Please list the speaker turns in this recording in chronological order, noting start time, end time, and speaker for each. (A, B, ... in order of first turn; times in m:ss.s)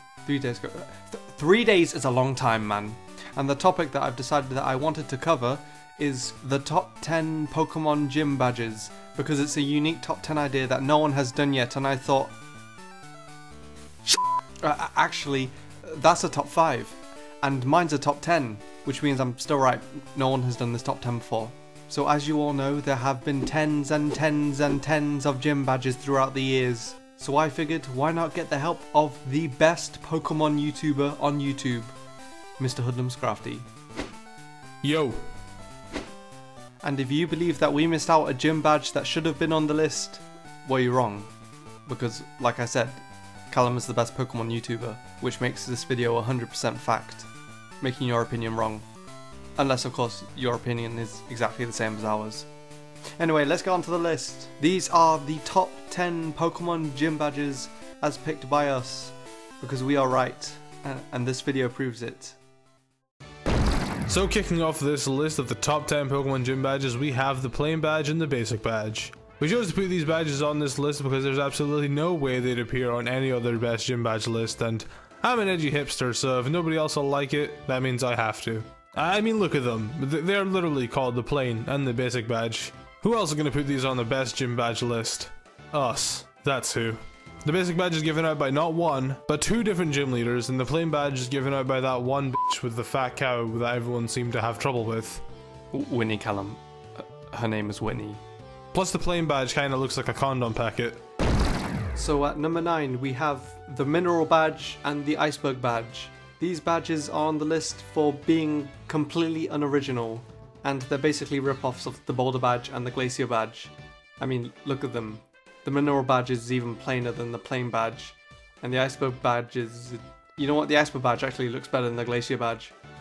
0:00.2-0:12.4 A
0:14.6-0:31.9 A
0:32.6-0:33.7 A
0:34.8-0:35.2 B
0:36.8-0:41.3 A
0:41.9-0:47.3 A
0:47.8-0:48.9 A
0:49.6-0:52.5 A
0:53.2-1:02.4 A
1:04.1-1:35.2 B
1:35.7-1:38.2 A
1:38.7-1:41.0 B
1:41.9-2:02.7 A